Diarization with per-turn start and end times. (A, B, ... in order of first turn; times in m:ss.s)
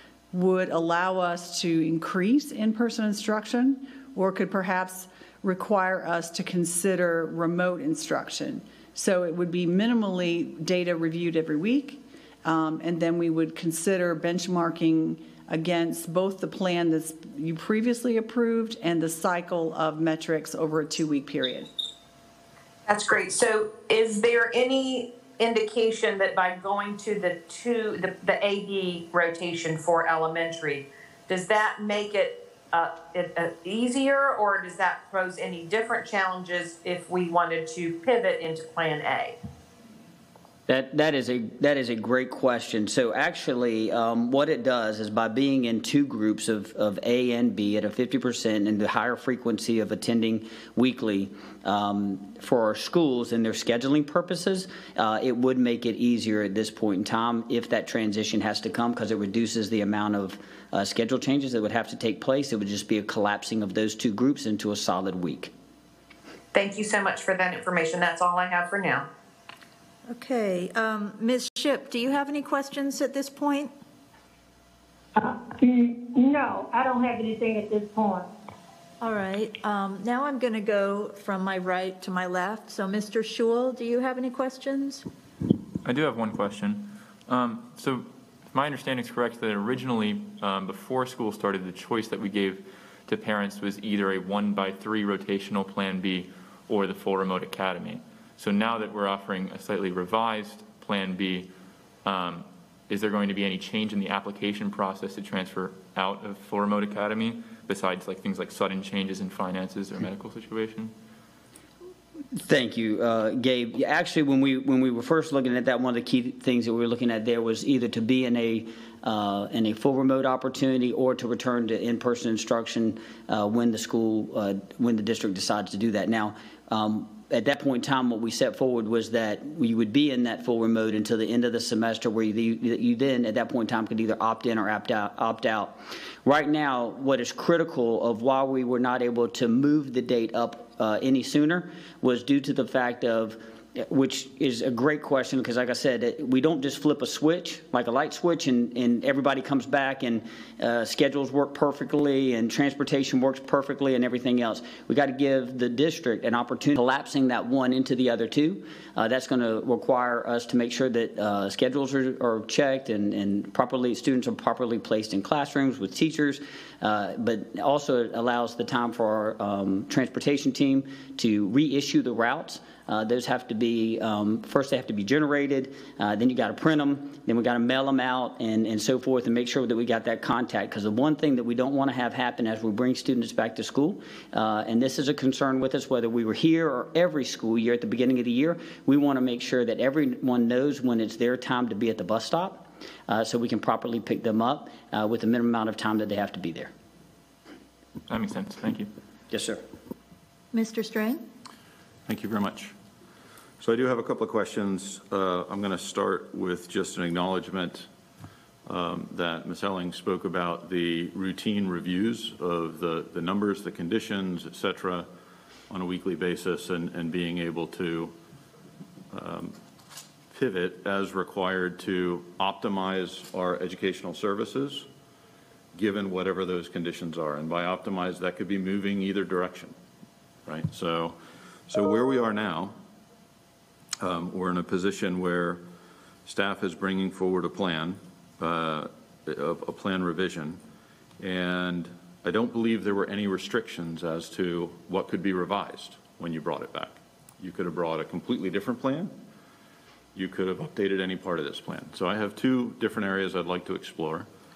0:00.3-0:21.7 A
0:22.8-0:39.4 B
0:40.7-1:05.5 C
1:06.5-1:09.1 B
1:10.1-1:13.7 D
1:15.2-1:18.3 E
1:19.0-1:25.0 D
1:25.8-1:41.5 F
1:42.0-1:50.9 F
1:52.4-3:16.7 C
3:18.1-3:18.9 F
3:19.3-3:19.6 C
3:20.5-3:21.2 D
3:22.1-3:22.7 G
3:23.6-3:27.9 G
3:28.6-3:35.1 G
3:35.7-3:38.1 G
3:39.1-3:39.5 G
3:40.3-3:44.9 G
3:45.7-3:49.7 G
3:50.4-3:51.2 G
3:51.7-3:52.8 G
3:54.0-3:55.6 G
3:56.2-4:00.6 G
4:01.2-4:09.1 G
4:10.1-4:14.3 G